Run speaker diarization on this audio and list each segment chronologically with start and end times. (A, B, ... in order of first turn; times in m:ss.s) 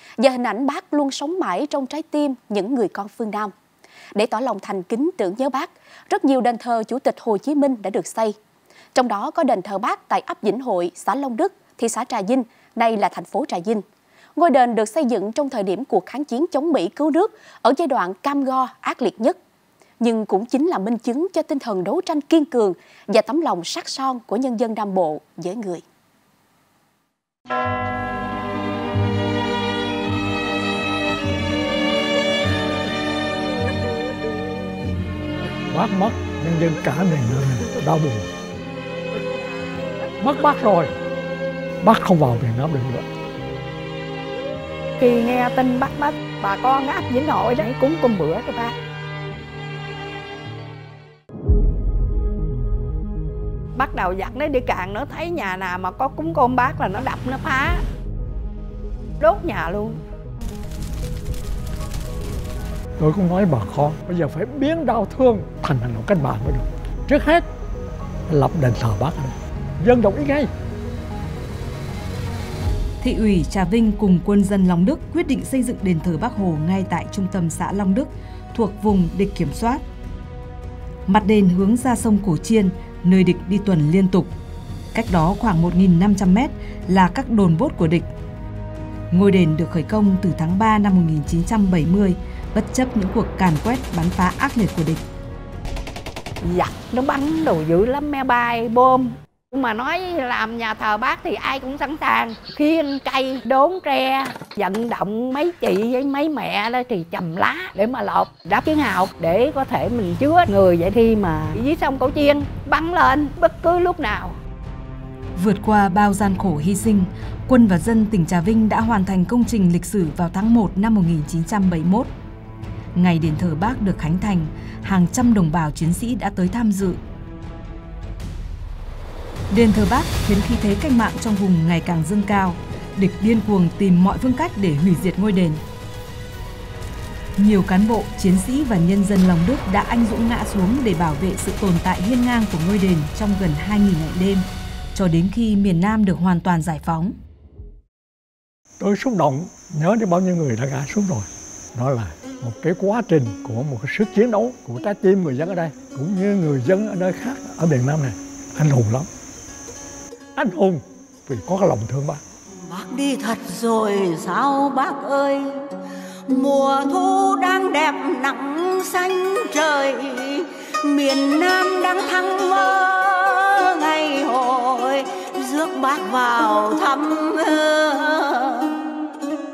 0:00.2-0:03.5 A
0:04.2-0:08.4 A
0:08.9-0:13.8 A
0:14.4-0:19.4 A
0:20.0-0:25.8 A
0:35.7-0:38.3 B
0:40.2-0:40.9 B
0:41.8-0:43.1 B
0:45.0-0:48.8 C
0:53.8-0:57.8 C
0:59.2-1:00.0 C
1:03.0-1:07.4 B
1:08.3-1:10.5 B
1:13.0-1:19.8 D
1:21.1-1:24.3 D
1:24.9-1:28.1 D
1:29.1-1:35.0 D
1:36.4-1:54.4 C
1:55.4-2:02.1 D
2:03.0-2:07.0 D
2:09.5-2:15.6 D
2:17.4-2:27.1 D
2:28.8-2:39.1 B
2:40.4-2:42.2 B
2:42.6-2:45.7 E
2:46.3-2:59.1 E